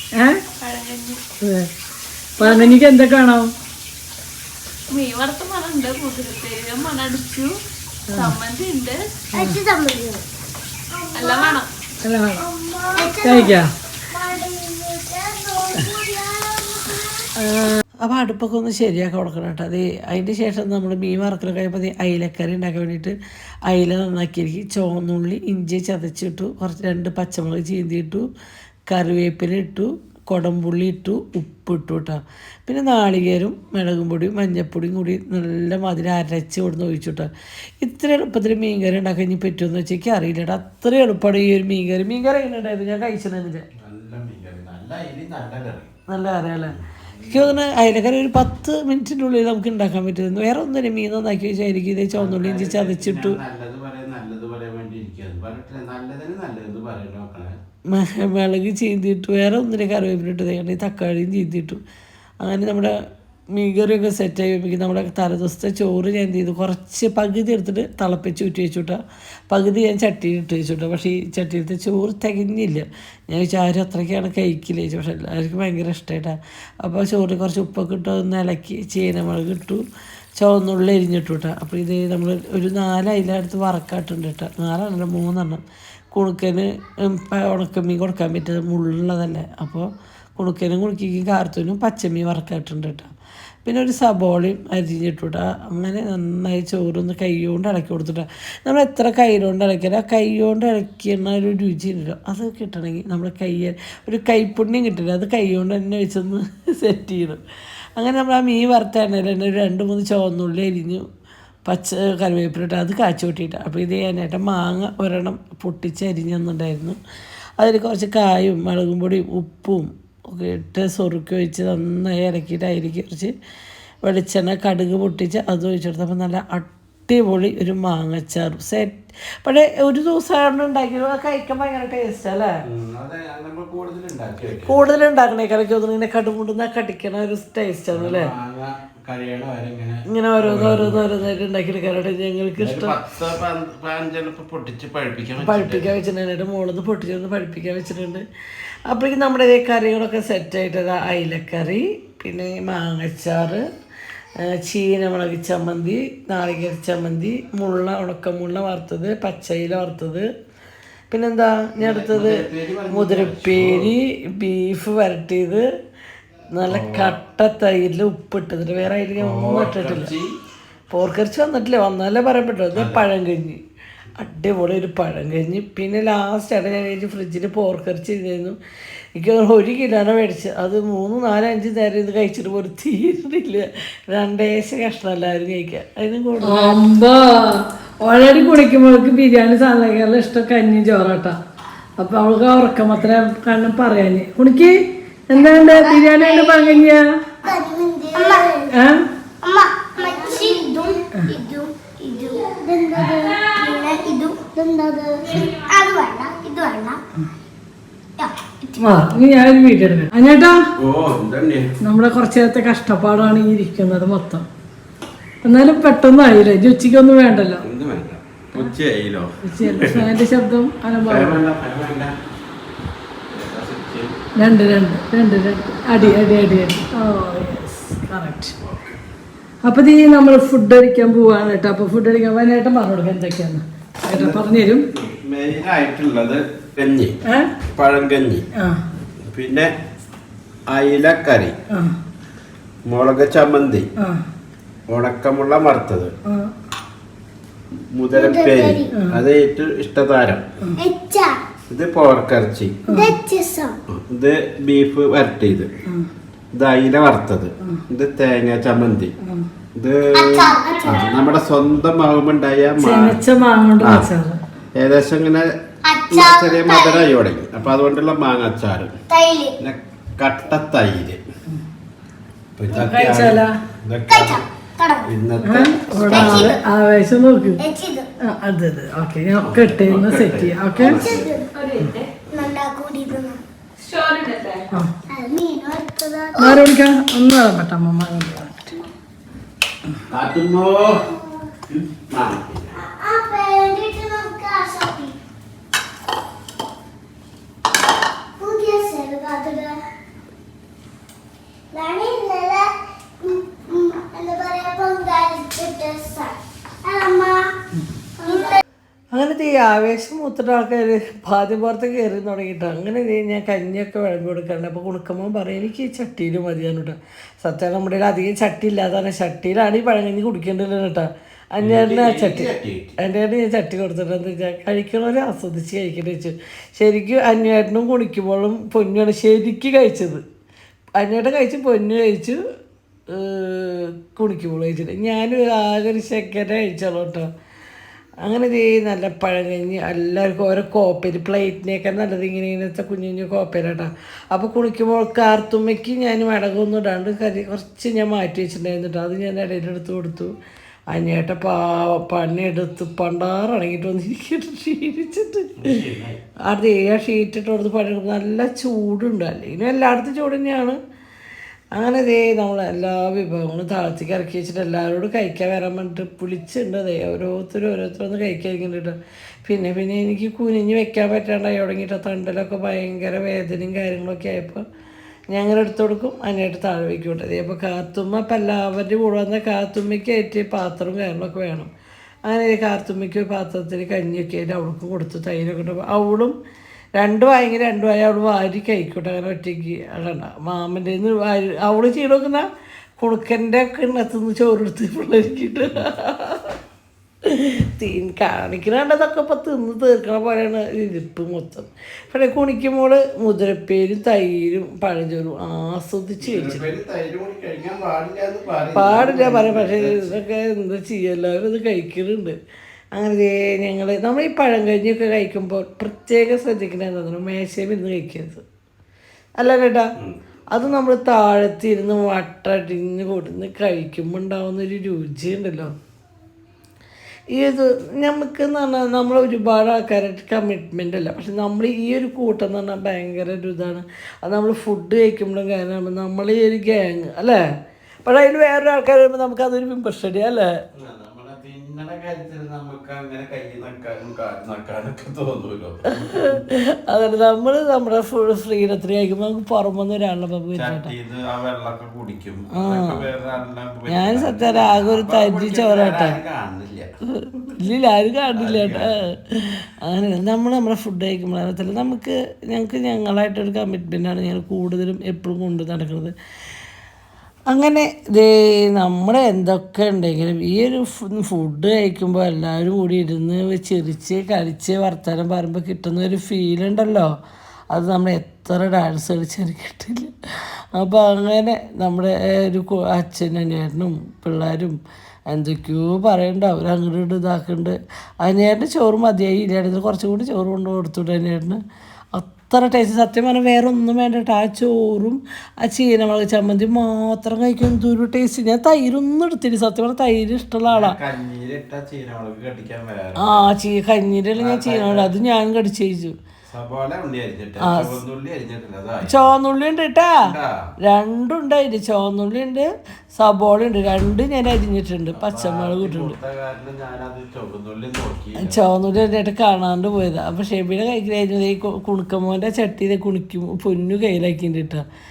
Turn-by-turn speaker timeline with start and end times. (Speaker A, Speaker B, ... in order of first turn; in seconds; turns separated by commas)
Speaker A: 0.2-0.4, Speaker B: 0.5-1.2, Speaker A: 1.4-1.7, Speaker A: 2.4-3.5, Speaker B: 2.4-2.7, Speaker B: 4.9-7.5, Speaker B: 8.1-9.0, Speaker A: 9.3-9.6, Speaker C: 9.3-10.2, Speaker C: 10.9-11.6, Speaker B: 11.1-11.7, Speaker A: 12.0-12.4, Speaker C: 12.4-13.6, Speaker A: 13.2-13.7, Speaker C: 14.1-17.3, Speaker A: 17.4-17.7, Speaker D: 18.0-23.1, Speaker D: 23.7-28.3, Speaker D: 28.9-37.3, Speaker D: 37.8-43.7, Speaker E: 43.8-45.9, Speaker D: 46.1-46.7, Speaker E: 46.6-47.6, Speaker D: 47.3-53.4, Speaker E: 52.1-57.5, Speaker D: 57.9-61.8, Speaker D: 62.4-62.9, Speaker D: 63.5-79.8, Speaker D: 80.4-85.6, Speaker D: 86.1-93.1, Speaker D: 93.6-107.4, Speaker D: 108.0-111.0, Speaker D: 111.7-117.0, Speaker D: 117.6-123.3, Speaker D: 124.0-132.5, Speaker E: 132.7-134.8, Speaker D: 134.6-138.3, Speaker E: 137.9-141.0, Speaker D: 140.1-142.9, Speaker E: 142.6-145.9, Speaker D: 145.4-148.2, Speaker D: 148.9-153.7, Speaker D: 154.4-160.3, Speaker D: 161.1-165.6, Speaker E: 161.8-163.9, Speaker D: 166.5-170.1, Speaker E: 166.7-167.1, Speaker E: 169.2-170.3, Speaker D: 170.9-173.6, Speaker E: 172.7-173.0, Speaker D: 174.2-178.6, Speaker D: 179.2-186.8, Speaker A: 186.4-191.3, Speaker A: 192.0-197.1, Speaker C: 195.3-196.7, Speaker C: 197.4-198.7, Speaker A: 198.7-199.0, Speaker C: 199.4-207.0, Speaker C: 208.2-208.8, Speaker A: 208.8-210.6, Speaker E: 210.8-211.7, Speaker A: 211.8-214.4, Speaker A: 215.4-217.7, Speaker E: 217.6-220.1, Speaker A: 219.4-221.4, Speaker E: 221.0-222.1, Speaker E: 223.3-224.3, Speaker A: 224.4-228.6, Speaker E: 225.9-226.2, Speaker A: 229.6-234.8, Speaker E: 234.1-237.2, Speaker E: 237.7-238.4, Speaker A: 238.6-238.8, Speaker E: 239.2-239.7, Speaker E: 240.7-241.6, Speaker E: 242.8-243.9, Speaker E: 244.9-246.1, Speaker E: 247.9-250.5, Speaker C: 248.1-248.9, Speaker A: 248.9-249.2, Speaker C: 250.8-251.4, Speaker E: 251.7-252.8, Speaker A: 252.9-253.1, Speaker C: 252.9-253.8, Speaker E: 253.9-255.7, Speaker E: 256.5-259.1, Speaker E: 259.8-263.2, Speaker C: 260.1-261.2, Speaker A: 262.8-264.4, Speaker E: 263.8-264.1, Speaker E: 264.8-265.5, Speaker C: 265.9-267.1, Speaker E: 266.1-268.9, Speaker C: 269.1-269.6, Speaker E: 269.6-271.2, Speaker E: 272.6-274.4, Speaker A: 272.7-273.5, Speaker C: 274.1-275.1, Speaker E: 275.0-276.6, Speaker A: 275.4-277.6, Speaker C: 276.0-276.6, Speaker C: 277.6-278.1, Speaker A: 278.2-281.0, Speaker E: 279.4-281.3, Speaker C: 280.8-281.5, Speaker B: 281.5-282.1, Speaker C: 282.3-283.4, Speaker B: 283.8-284.7, Speaker C: 285.1-286.6, Speaker A: 286.4-288.8, Speaker E: 290.1-291.1, Speaker C: 290.9-291.5, Speaker E: 291.7-292.8, Speaker C: 292.8-295.1, Speaker C: 298.4-299.8, Speaker C: 301.7-307.5, Speaker C: 308.2-308.6, Speaker D: 309.1-330.2, Speaker E: 321.6-322.9, Speaker D: 331.0-332.4, Speaker D: 333.1-337.3, Speaker D: 338.2-350.3, Speaker D: 350.9-355.6, Speaker E: 355.6-356.2, Speaker D: 356.5-360.8, Speaker D: 361.7-374.6, Speaker D: 375.3-381.7, Speaker D: 382.3-386.3, Speaker D: 387.0-392.4, Speaker D: 393.0-396.6, Speaker D: 397.2-406.7, Speaker E: 406.2-410.2, Speaker D: 408.7-412.4, Speaker D: 412.9-418.4, Speaker D: 419.4-419.9, Speaker D: 420.5-425.7, Speaker D: 427.3-437.4, Speaker D: 438.0-440.5, Speaker E: 440.8-446.4, Speaker D: 446.0-450.9, Speaker E: 450.5-456.9, Speaker D: 452.5-453.0, Speaker D: 453.9-456.2, Speaker D: 457.1-466.1, Speaker E: 458.3-458.9, Speaker D: 467.5-477.1, Speaker D: 477.7-480.1, Speaker D: 480.7-484.8, Speaker D: 485.3-491.6, Speaker D: 492.1-500.9, Speaker E: 500.7-503.5, Speaker D: 503.2-506.1, Speaker E: 504.4-505.1, Speaker E: 506.5-509.3, Speaker D: 507.6-508.0, Speaker D: 509.1-510.3, Speaker E: 510.2-510.5, Speaker D: 510.8-516.1, Speaker E: 515.1-518.6, Speaker D: 518.4-524.8